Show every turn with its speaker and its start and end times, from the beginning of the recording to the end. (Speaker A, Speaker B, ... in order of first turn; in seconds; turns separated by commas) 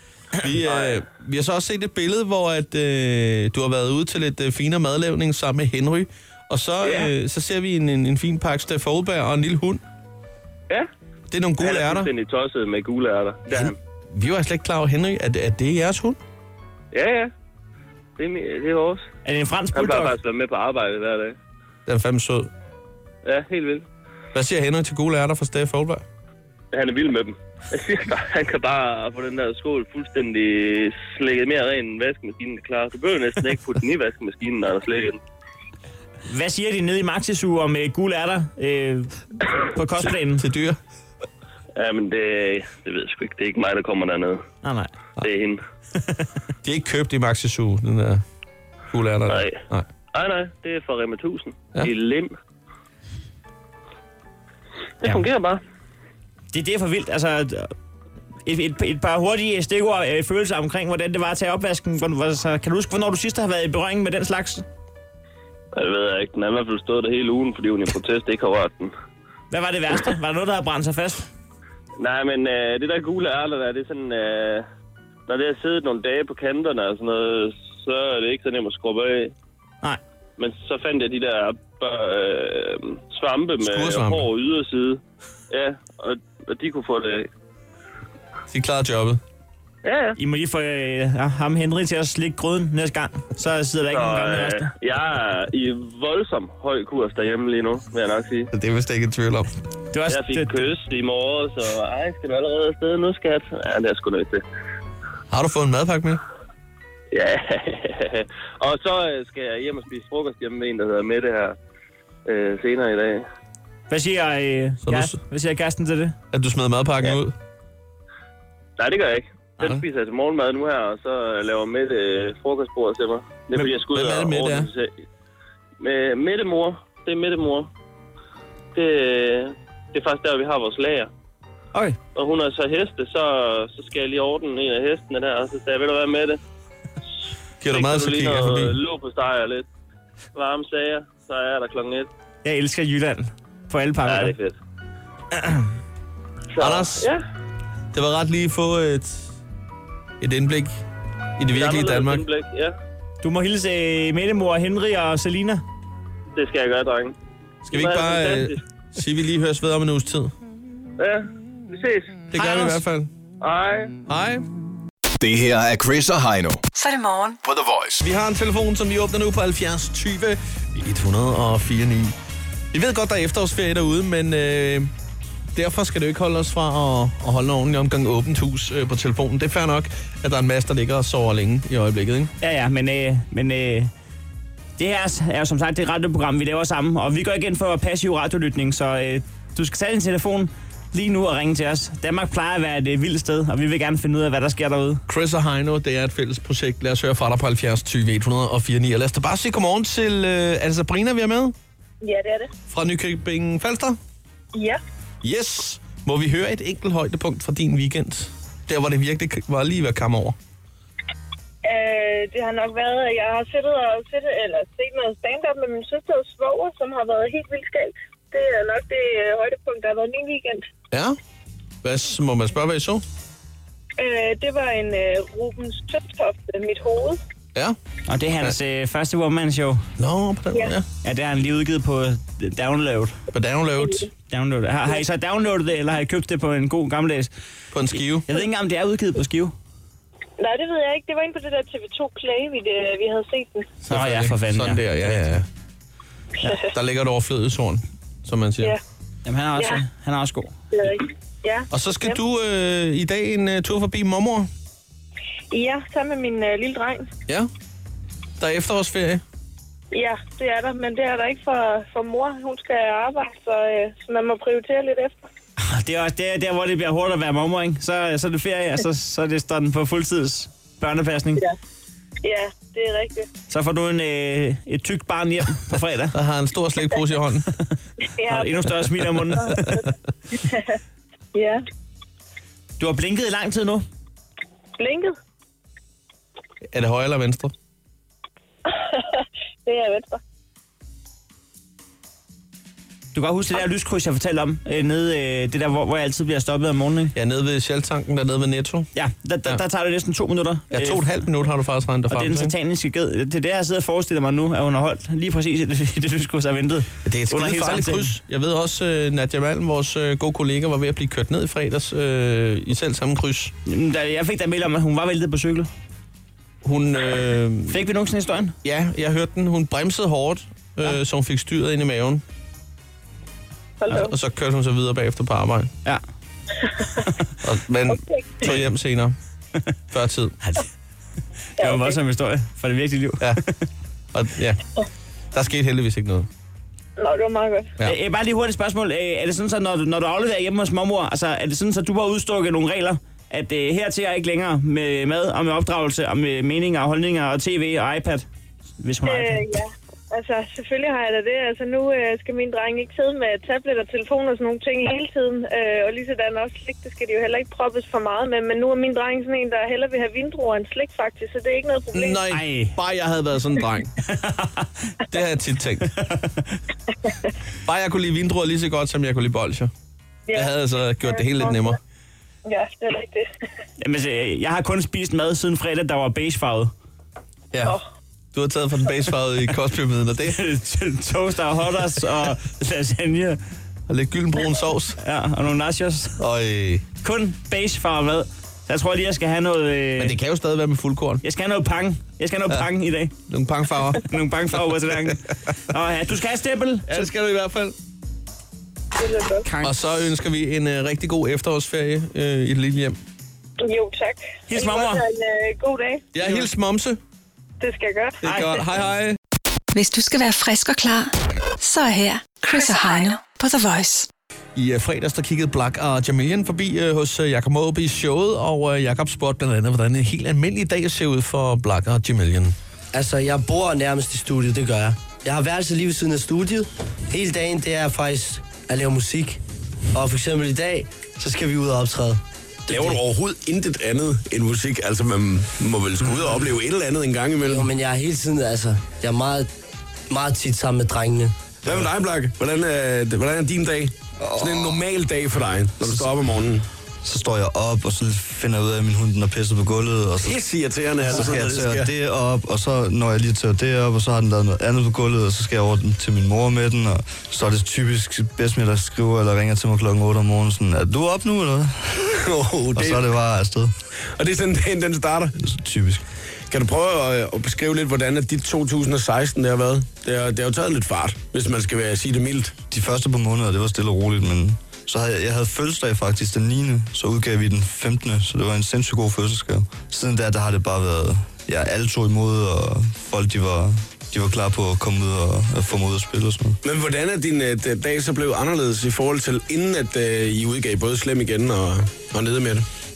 Speaker A: 0.4-9.8, Speaker B: 0.6-1.0, Speaker B: 6.8-7.1, Speaker A: 11.3-12.1, Speaker B: 11.6-13.8, Speaker A: 13.5-16.2, Speaker B: 16.9-17.3, Speaker B: 18.2-19.1, Speaker C: 19.2-20.2, Speaker B: 19.7-21.4, Speaker A: 21.9-22.5, Speaker B: 23.2-23.9, Speaker A: 24.3-26.0, Speaker B: 26.7-35.2, Speaker C: 36.3-40.5, Speaker A: 40.0-40.8, Speaker B: 41.8-44.4, Speaker C: 44.6-44.9, Speaker B: 45.2-45.6, Speaker A: 46.6-48.2, Speaker A: 48.9-49.9, Speaker B: 49.3-49.6, Speaker B: 50.1-52.3, Speaker B: 55.0-55.6, Speaker C: 56.5-57.7, Speaker C: 58.5-64.7, Speaker B: 65.8-68.9, Speaker C: 69.5-71.3, Speaker B: 72.0-74.7, Speaker B: 75.3-79.3, Speaker B: 80.4-87.3, Speaker A: 83.6-84.3, Speaker A: 88.5-89.2, Speaker B: 89.8-90.2, Speaker C: 90.2-94.7, Speaker B: 93.9-98.5, Speaker A: 98.5-99.5, Speaker C: 99.9-100.5, Speaker B: 100.1-104.4, Speaker A: 105.3-106.2, Speaker B: 107.1-111.6, Speaker B: 112.3-113.2, Speaker C: 113.9-116.2, Speaker A: 114.8-115.2, Speaker A: 116.3-117.3, Speaker B: 118.8-124.9, Speaker A: 123.5-124.7, Speaker B: 125.8-127.7, Speaker B: 128.8-131.1, Speaker B: 132.2-136.4, Speaker A: 137.6-138.8, Speaker B: 137.7-139.7, Speaker B: 140.3-142.1, Speaker C: 142.4-144.3, Speaker B: 144.1-144.6, Speaker B: 146.5-147.2, Speaker A: 146.6-147.1, Speaker A: 147.9-149.4, Speaker A: 150.2-150.8, Speaker A: 151.4-152.2, Speaker B: 151.5-152.8, Speaker C: 153.2-155.6, Speaker B: 156.3-157.2, Speaker B: 157.7-158.6, Speaker A: 157.7-160.3, Speaker B: 161.0-162.2, Speaker A: 162.3-163.1, Speaker C: 162.4-162.7, Speaker B: 163.4-163.9, Speaker A: 164.1-164.4, Speaker D: 165.2-166.6, Speaker E: 166.7-167.4, Speaker D: 167.4-168.0, Speaker A: 168.0-172.2, Speaker A: 172.7-174.9, Speaker A: 175.6-182.3, Speaker C: 182.4-183.9, Speaker C: 184.8-195.0, Speaker A: 195.1-201.6, Speaker F: 202.0-202.5, Speaker A: 202.7-204.0, Speaker F: 204.5-204.8, Speaker A: 205.2-210.4, Speaker F: 211.6-220.7, Speaker A: 220.9-221.2, Speaker A: 221.8-223.0, Speaker F: 224.0-227.2, Speaker C: 228.1-229.9, Speaker A: 230.0-230.8, Speaker C: 231.0-233.2, Speaker A: 233.3-234.1, Speaker C: 234.3-237.3, Speaker A: 237.7-238.3, Speaker C: 238.3-239.5, Speaker F: 240.4-243.7, Speaker A: 243.9-245.5, Speaker C: 243.9-245.1, Speaker A: 246.6-248.8, Speaker C: 249.3-250.6, Speaker F: 250.7-252.2, Speaker A: 251.7-254.5, Speaker F: 255.5-257.1, Speaker A: 258.4-259.2, Speaker F: 259.9-265.2, Speaker C: 265.6-271.4, Speaker F: 272.2-273.3, Speaker C: 273.5-276.1, Speaker A: 276.1-277.5, Speaker F: 278.1-278.7, Speaker C: 278.3-279.8, Speaker F: 279.4-279.9, Speaker F: 280.4-280.8, Speaker F: 281.4-281.6, Speaker C: 282.8-283.9, Speaker F: 284.8-285.1, Speaker A: 286.7-287.5, Speaker F: 288.7-290.2, Speaker C: 293.1-297.1, Speaker A: 297.1-298.9, Speaker C: 298.9-301.1, Speaker A: 300.7-302.6, Speaker C: 302.1-308.1, Speaker A: 307.1-313.5, Speaker C: 313.7-315.7, Speaker A: 316.6-317.8, Speaker C: 317.7-318.6, Speaker A: 318.6-322.2, Speaker F: 323.8-324.1, Speaker A: 323.9-325.7, Speaker A: 327.4-329.2, Speaker F: 328.2-328.4, Speaker A: 329.9-330.4, Speaker C: 331.6-333.7, Speaker F: 331.6-331.9, Speaker A: 334.1-334.6, Speaker A: 335.3-336.3, Speaker F: 337.0-337.7, Speaker C: 337.8-348.3, Speaker C: 348.8-349.6, Speaker F: 349.1-362.2, Speaker A: 361.9-363.9, Speaker C: 362.3-362.8, Speaker C: 364.1-364.7, Speaker A: 365.1-365.9, Speaker C: 365.9-366.6, Speaker A: 367.7-369.7, Speaker A: 370.3-371.8, Speaker F: 371.0-371.8, Speaker F: 372.5-373.3, Speaker C: 373.8-376.7, Speaker A: 378.3-380.4, Speaker C: 380.3-383.4, Speaker A: 383.9-385.0, Speaker C: 385.0-386.2, Speaker A: 386.2-386.8, Speaker C: 387.0-390.1, Speaker A: 390.0-391.2, Speaker C: 391.2-393.1, Speaker A: 393.3-394.0, Speaker C: 394.0-397.1, Speaker A: 396.9-397.8, Speaker F: 399.0-399.5, Speaker C: 399.4-399.7, Speaker A: 399.6-403.0, Speaker F: 403.6-406.1, Speaker C: 404.5-405.0, Speaker A: 406.1-407.0, Speaker F: 407.6-408.2, Speaker A: 408.2-409.2, Speaker C: 408.2-408.6, Speaker E: 409.7-414.1, Speaker A: 414.6-422.6, Speaker G: 422.9-429.4, Speaker G: 429.9-433.0, Speaker H: 432.7-437.7, Speaker G: 437.5-439.5, Speaker G: 440.1-441.3, Speaker H: 441.6-446.6, Speaker I: 444.2-444.8, Speaker I: 445.8-446.1, Speaker I: 447.0-450.4, Speaker H: 450.2-451.9, Speaker I: 451.0-462.2, Speaker H: 462.2-463.0, Speaker I: 462.7-463.7, Speaker H: 464.2-465.4, Speaker I: 465.4-466.0, Speaker H: 466.5-472.6, Speaker I: 472.7-486.6, Speaker H: 486.6-492.6